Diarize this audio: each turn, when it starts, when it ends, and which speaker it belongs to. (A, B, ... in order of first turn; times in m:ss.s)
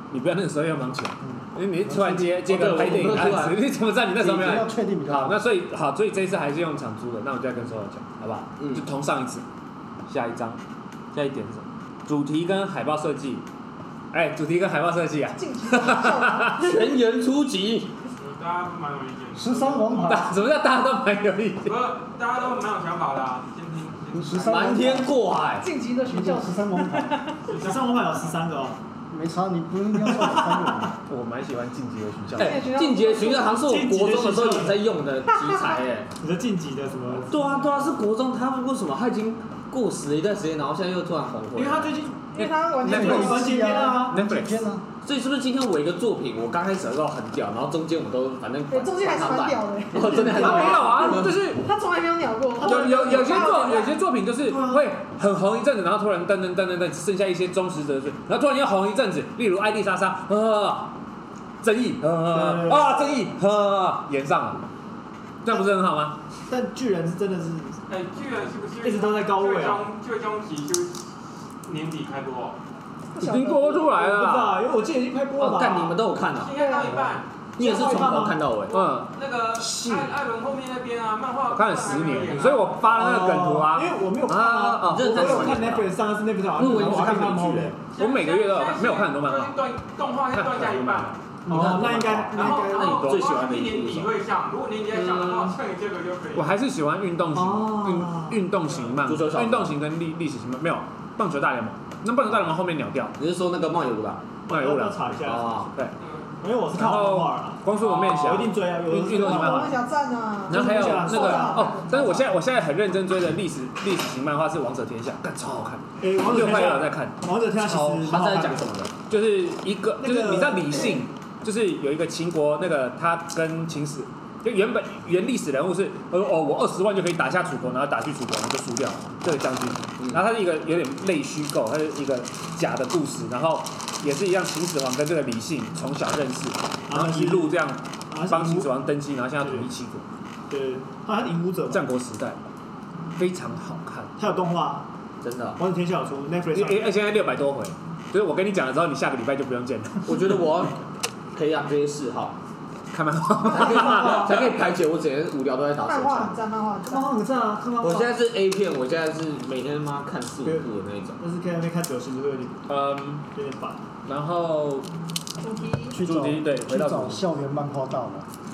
0:00.1-0:09.4 A
0:01.2-0:02.4 B
0:02.5-0:03.6 C
0:04.2-0:05.4 B
0:08.6-0:08.8 C
0:10.1-0:10.6 A
0:11.1-0:13.4 A
0:14.1-0:16.6 A
0:15.4-0:16.6 D
0:16.5-0:17.9 C
0:18.2-0:20.2 E
0:19.4-0:20.4 B
0:20.0-0:21.8 A
0:21.6-0:24.8 E
0:24.1-0:25.2 B
0:24.4-0:25.7 C
0:25.6-0:27.4 D
0:26.1-0:27.2 B
0:27.5-0:28.1 E
0:27.5-0:28.8 F
0:29.1-0:31.0 B
0:31.1-0:32.7 A
0:32.4-0:33.6 D
0:32.4-0:36.1 C
0:33.6-0:34.8 F
0:35.4-0:35.8 D
0:36.2-0:37.5 F
0:37.3-0:41.9 C
0:41.6-0:42.3 F
0:42.3-0:43.9 D
0:42.4-0:43.4 A
0:42.8-0:44.8 B
0:42.9-0:44.2 F
0:44.1-0:44.6 A
0:45.0-0:51.3 C
0:48.7-0:54.0 D
0:50.1-0:50.7 F
0:50.3-0:51.6 A
0:52.6-1:01.0 A
0:52.7-0:53.2 F
0:54.5-0:54.8 F
1:01.6-1:04.6 A
1:02.3-1:03.1 F
1:05.4-1:06.2 A
1:06.5-1:07.8 F
1:07.9-1:11.1 E
1:08.8-1:09.9 F
1:11.6-1:12.6 E
1:13.1-1:13.9 D
1:13.2-1:14.6 A
1:13.9-1:16.0 F
1:15.4-1:16.5 C
1:16.4-1:17.3 E
1:16.5-1:17.1 D
1:17.6-1:18.8 C
1:17.6-1:18.4 F
1:18.7-1:22.8 E
1:18.7-1:20.1 A
1:21.5-1:25.6 A
1:22.8-1:27.8 F
1:24.9-1:26.0 C
1:26.6-1:27.8 C
1:27.9-1:31.2 E
1:28.0-1:29.6 A
1:30.3-1:32.1 A
1:31.4-1:33.0 F
1:31.5-1:34.2 C
1:32.3-1:36.6 E
1:34.9-1:35.6 C
1:36.4-1:43.1 A
1:37.3-1:38.4 F
1:39.0-1:39.8 C
1:43.2-1:44.2 C
1:44.5-1:45.6 F
1:44.5-1:45.0 A
1:45.2-1:45.7 C
1:46.0-1:46.3 E
1:46.4-1:49.8 F
1:46.7-1:49.7 A
1:49.1-1:52.2 D
1:50.5-1:58.2 A
1:50.5-1:52.2 F
1:56.0-1:58.7 F
1:58.1-1:58.9 C
1:59.1-2:20.0 A
2:00.0-2:01.0 F
2:16.9-2:17.6 F
2:18.1-2:18.8 F
2:20.5-2:21.9 F
2:21.7-2:22.4 A
2:23.2-2:24.1 A
2:24.2-2:24.9 F
2:25.2-2:25.6 C
2:25.6-2:26.9 F
2:26.5-2:30.1 A
2:30.1-2:30.8 C
2:31.4-2:32.4 C
2:32.9-2:34.4 A
2:33.5-2:34.4 F
2:33.5-2:36.4 C
2:35.8-2:37.2 D
2:36.8-2:38.2 F
2:37.8-2:41.2 C
2:41.2-2:42.6 F
2:42.7-2:43.2 A
2:43.3-2:43.8 F
2:44.0-2:44.9 A
2:45.4-2:46.0 D
2:45.9-2:48.3 B
2:46.0-2:47.3 A